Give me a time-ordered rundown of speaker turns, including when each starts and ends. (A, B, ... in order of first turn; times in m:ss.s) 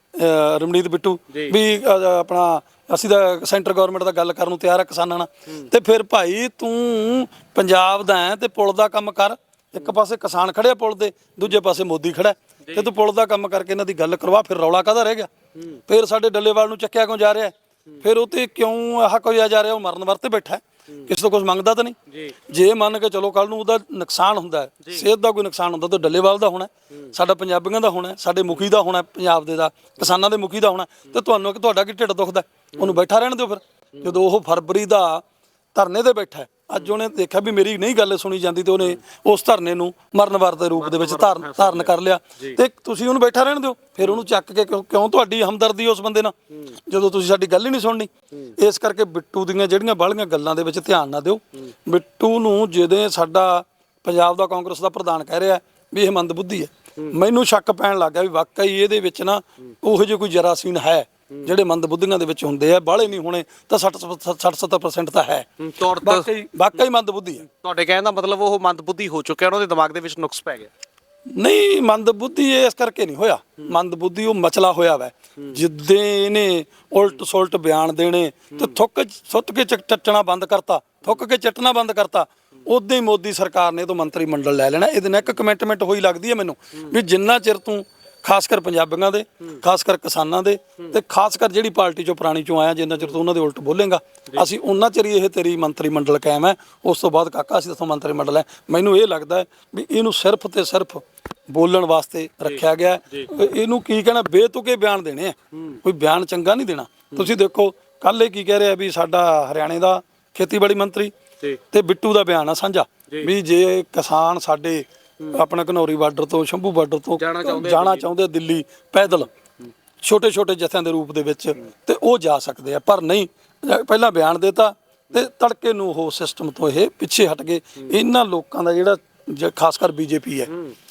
0:00.1-0:15.3 A
0:01.3-0:01.6 B
0:12.7-0:12.9 B
0:15.5-0:15.8 B
0:15.9-0:22.0 A
0:22.1-0:22.4 B
0:22.5-0:46.3 A
0:32.8-0:33.0 B
0:40.7-0:42.6 B
0:46.5-0:46.8 B
0:46.8-1:05.5 A
1:05.6-1:06.3 B
1:06.0-1:07.4 A
1:07.4-1:10.7 B
1:11.3-1:51.1 A
1:18.5-1:18.8 B
1:42.4-1:43.3 B
1:45.5-1:45.8 B
1:51.7-1:59.3 A
1:57.2-1:58.1 B
2:00.0-2:10.5 A
2:10.5-2:10.7 B